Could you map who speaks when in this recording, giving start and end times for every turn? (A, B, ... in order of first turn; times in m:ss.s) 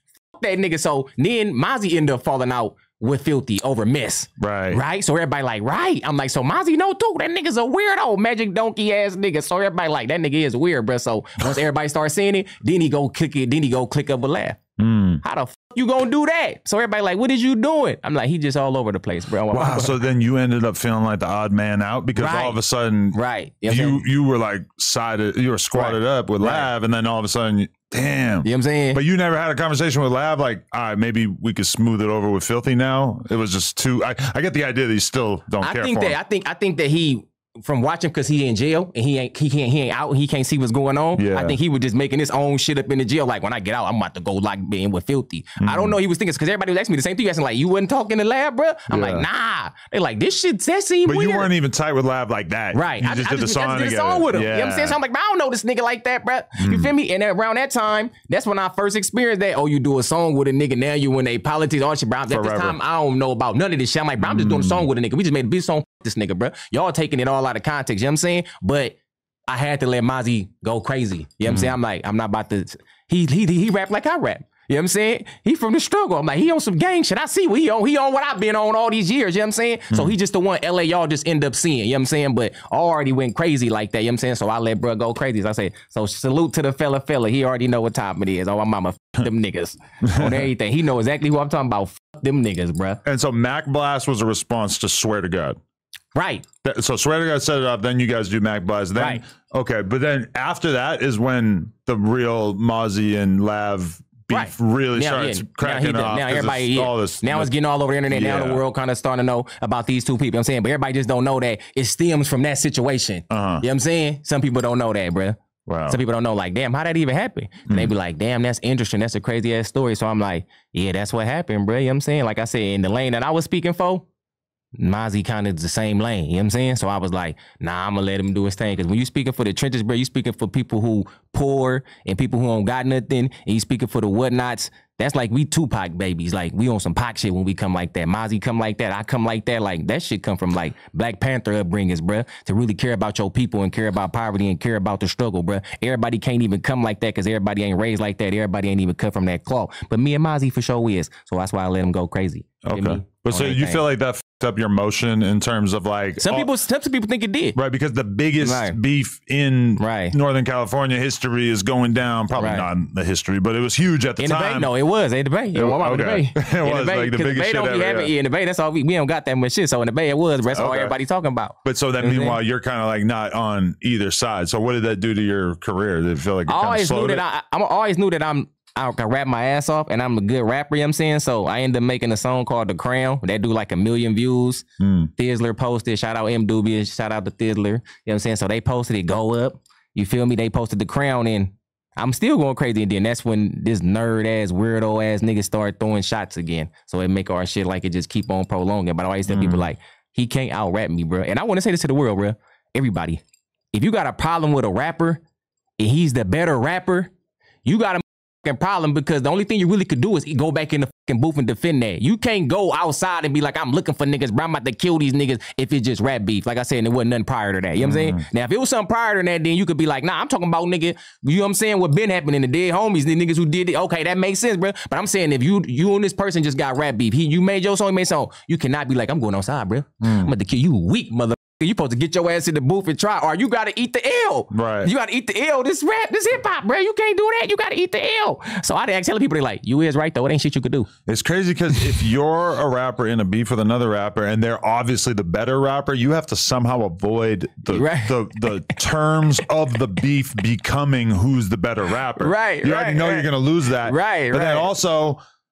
0:00.4-0:14.6 A
0:04.4-0:04.8 B
0:14.8-0:15.2 B
0:15.2-0:20.0 A
0:19.5-0:36.2 B
0:22.2-0:22.6 A
0:23.1-0:24.0 A
0:25.7-0:26.7 A
0:28.4-0:29.0 A
0:35.6-0:51.5 A
0:41.1-0:41.6 B
0:45.6-0:46.0 B
0:48.9-0:49.3 B
0:51.0-0:55.0 B
0:52.7-1:09.0 A
0:56.6-0:56.9 B
1:02.3-1:02.8 B
1:04.2-1:04.9 B
1:09.5-1:33.0 A
1:30.0-1:30.5 B
1:33.0-1:35.6 B
1:36.2-1:36.4 A
1:36.6-1:47.5 B
1:39.0-1:39.2 A
1:44.3-2:04.1 A
1:48.1-1:48.6 B
1:53.3-1:53.6 B
1:55.7-1:56.0 B
2:04.8-2:33.8 A
2:32.6-2:36.5 B
2:36.2-2:37.6 A
2:37.6-2:44.7 B
2:38.4-2:38.8 A
2:39.8-2:40.2 A
2:42.4-2:42.7 A
2:44.2-2:52.4 A
2:45.5-2:48.1 B
2:50.5-2:51.0 B
2:51.6-2:57.2 B
2:56.5-3:04.6 A
3:04.8-3:05.1 B
3:05.2-3:23.2 A
3:19.3-3:19.7 B
3:23.7-3:25.2 A
3:25.8-3:27.1 A
3:27.6-4:00.9 A
3:37.8-3:38.2 B
3:50.0-3:50.3 B
3:54.5-3:54.9 B
4:01.1-4:15.2 B
4:07.7-4:08.6 A
4:12.2-4:14.7 A